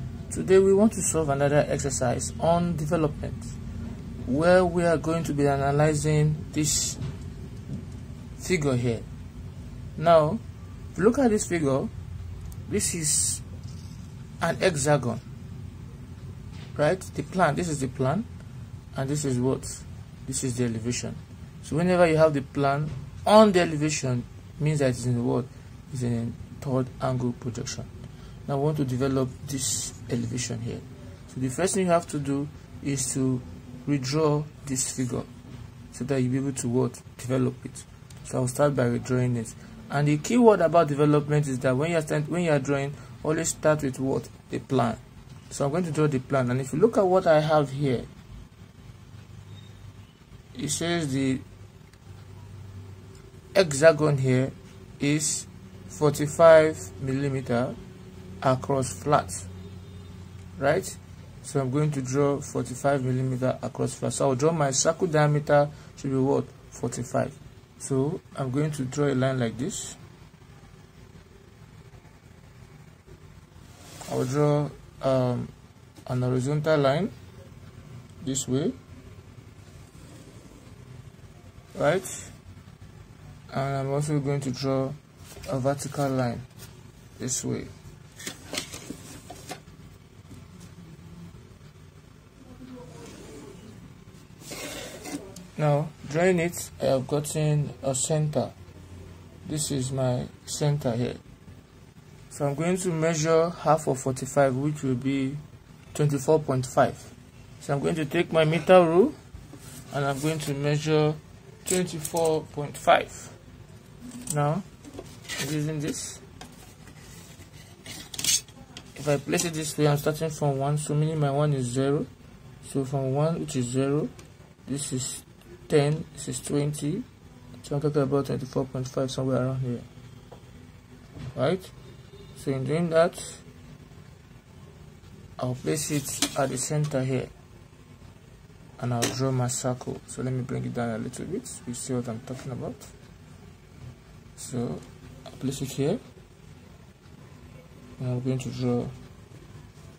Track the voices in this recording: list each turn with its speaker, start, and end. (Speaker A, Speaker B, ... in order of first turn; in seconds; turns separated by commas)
Speaker A: 0.3-3.6, Speaker A: 4.2-7.0, Speaker A: 8.4-9.1, Speaker A: 10.0-10.4, Speaker A: 10.9-11.9, Speaker A: 12.7-13.4, Speaker A: 14.4-15.2, Speaker A: 16.8-18.3, Speaker A: 18.9-27.9, Speaker A: 28.5-35.3, Speaker A: 35.9-48.1, Speaker A: 50.5-51.5, Speaker A: 53.5-57.8, Speaker A: 58.4-59.5, Speaker A: 60.6-70.0, Speaker A: 74.1-75.5, Speaker A: 76.1-77.1, Speaker A: 78.2-78.8, Speaker A: 81.8-82.3, Speaker A: 83.5-86.5, Speaker A: 87.2-87.7, Speaker A: 95.6-98.5, Speaker A: 99.5-101.2, Speaker A: 102.3-105.4, Speaker A: 105.9-109.2, Speaker A: 109.9-113.4, Speaker A: 114.3-114.7, Speaker A: 115.4-116.2, Speaker A: 119.0-122.1, Speaker A: 122.6-124.1, Speaker A: 124.7-127.1, Speaker A: 127.6-129.9, Speaker A: 131.3-131.7, Speaker A: 132.3-133.4, Speaker A: 135.4-137.3, Speaker A: 138.8-142.9, Speaker A: 144.4-146.0, Speaker A: 148.0-148.9